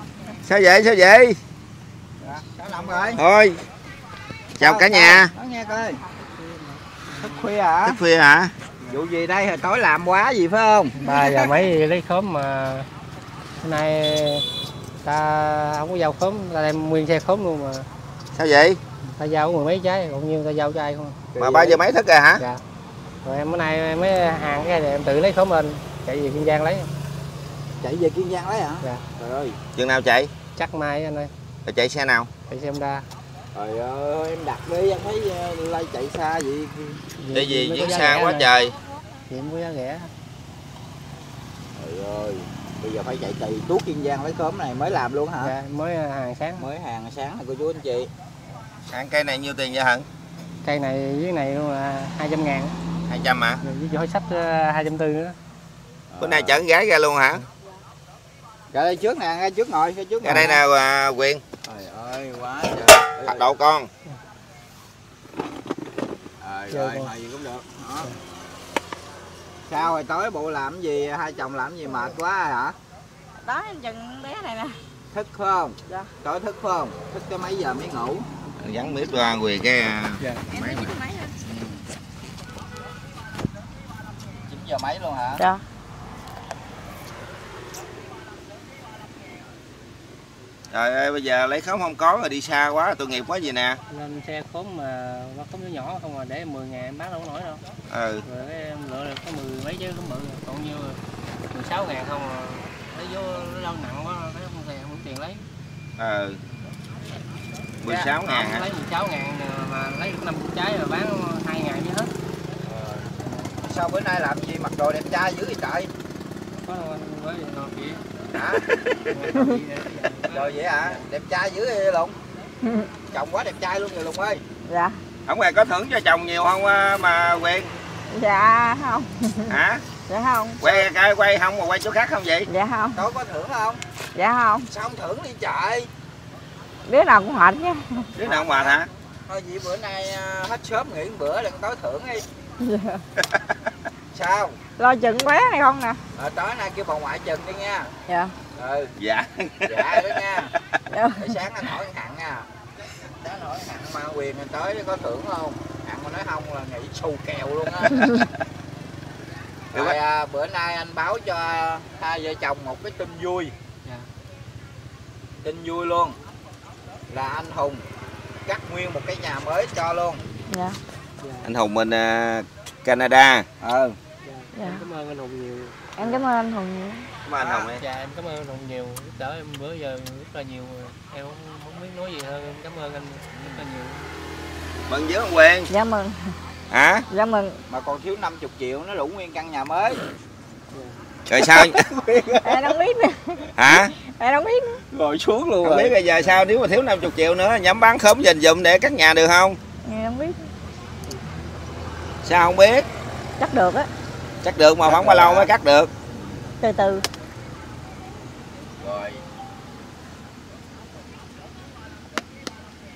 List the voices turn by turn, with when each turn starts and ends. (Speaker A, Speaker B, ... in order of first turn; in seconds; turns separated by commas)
Speaker A: 0.4-1.4, Speaker B: 2.2-3.2, Speaker C: 2.8-3.2, Speaker A: 3.1-3.6, Speaker A: 4.6-5.3, Speaker B: 4.6-6.0, Speaker C: 6.4-7.5, Speaker B: 7.1-8.0, Speaker A: 7.8-8.5, Speaker B: 8.9-11.5, Speaker C: 11.0-12.9, Speaker C: 13.6-14.4, Speaker C: 15.0-17.9, Speaker A: 18.3-18.8, Speaker C: 19.0-21.3, Speaker B: 21.3-21.8, Speaker A: 21.4-22.4, Speaker C: 23.2-26.9, Speaker B: 27.8-29.6, Speaker A: 29.8-30.3, Speaker C: 30.6-31.3, Speaker A: 31.6-32.3, Speaker C: 32.5-33.0, Speaker B: 33.5-37.0, Speaker C: 37.2-38.5, Speaker A: 37.3-38.7, Speaker C: 39.3-40.1, Speaker B: 41.8-45.5, Speaker C: 45.4-46.6, Speaker B: 46.6-48.1, Speaker A: 48.9-50.0, Speaker C: 50.6-52.7, Speaker A: 53.1-53.6, Speaker C: 53.6-55.4, Speaker B: 56.1-56.6, Speaker A: 56.2-57.4, Speaker B: 58.7-60.6, Speaker A: 60.2-61.4, Speaker B: 61.6-63.5, Speaker A: 62.8-63.9, Speaker B: 66.4-68.1, Speaker C: 66.7-67.1, Speaker B: 69.7-72.8, Speaker D: 73.4-74.8, Speaker B: 75.1-78.2, Speaker A: 78.6-80.9, Speaker C: 80.2-80.5, Speaker D: 80.5-81.3, Speaker B: 81.4-81.8, Speaker B: 84.5-85.4, Speaker A: 90.7-93.8, Speaker C: 93.9-97.6, Speaker A: 97.9-98.2, Speaker C: 98.2-101.0, Speaker C: 101.5-105.4, Speaker A: 106.0-106.4, Speaker A: 107.8-108.7, Speaker B: 107.8-108.1, Speaker C: 108.0-112.1, Speaker B: 112.6-115.9, Speaker C: 116.6-118.0, Speaker B: 118.3-118.8, Speaker A: 118.8-119.1, Speaker C: 119.1-121.1, Speaker D: 119.3-119.6, Speaker B: 120.3-122.2, Speaker D: 122.6-122.9, Speaker B: 123.1-124.4, Speaker D: 124.7-125.0, Speaker A: 125.3-127.7, Speaker D: 128.1-129.6, Speaker A: 129.5-129.8, Speaker D: 130.1-130.6, Speaker A: 130.6-132.5, Speaker B: 130.6-130.9, Speaker D: 132.5-133.0, Speaker B: 132.9-133.8, Speaker D: 134.1-134.7, Speaker B: 134.7-135.9, Speaker D: 136.8-138.1, Speaker A: 138.2-138.9, Speaker B: 138.2-142.2, Speaker D: 142.6-143.0, Speaker A: 143.2-143.4, Speaker B: 144.1-144.6, Speaker D: 144.8-146.0, Speaker B: 146.1-147.9, Speaker D: 148.1-148.3, Speaker B: 148.5-148.9, Speaker A: 149.0-150.2, Speaker B: 149.6-150.5, Speaker D: 150.9-151.3, Speaker B: 151.1-152.5, Speaker B: 153.0-158.2, Speaker B: 159.7-163.5, Speaker A: 159.7-160.0, Speaker B: 165.4-166.2, Speaker B: 167.1-167.8, Speaker B: 168.4-170.2, Speaker D: 170.5-170.8, Speaker C: 171.2-171.5, Speaker A: 171.4-173.4, Speaker B: 173.6-174.0, Speaker C: 174.2-176.2, Speaker D: 174.5-174.8, Speaker D: 176.0-177.1, Speaker A: 177.2-177.8, Speaker B: 177.4-177.7, Speaker C: 177.7-184.1, Speaker B: 183.3-183.6, Speaker A: 184.9-185.7, Speaker D: 185.7-186.3, Speaker A: 186.7-187.1, Speaker D: 187.1-187.6, Speaker B: 187.7-190.0, Speaker A: 191.3-191.8, Speaker B: 191.4-192.8, Speaker D: 192.4-194.8, Speaker A: 193.6-193.9, Speaker B: 194.9-196.0, Speaker A: 195.6-199.6, Speaker D: 199.8-200.5, Speaker A: 202.2-202.8, Speaker D: 203.4-203.9, Speaker A: 204.4-205.9, Speaker B: 204.8-205.5, Speaker B: 206.1-206.4, Speaker D: 206.6-207.0, Speaker B: 208.8-209.2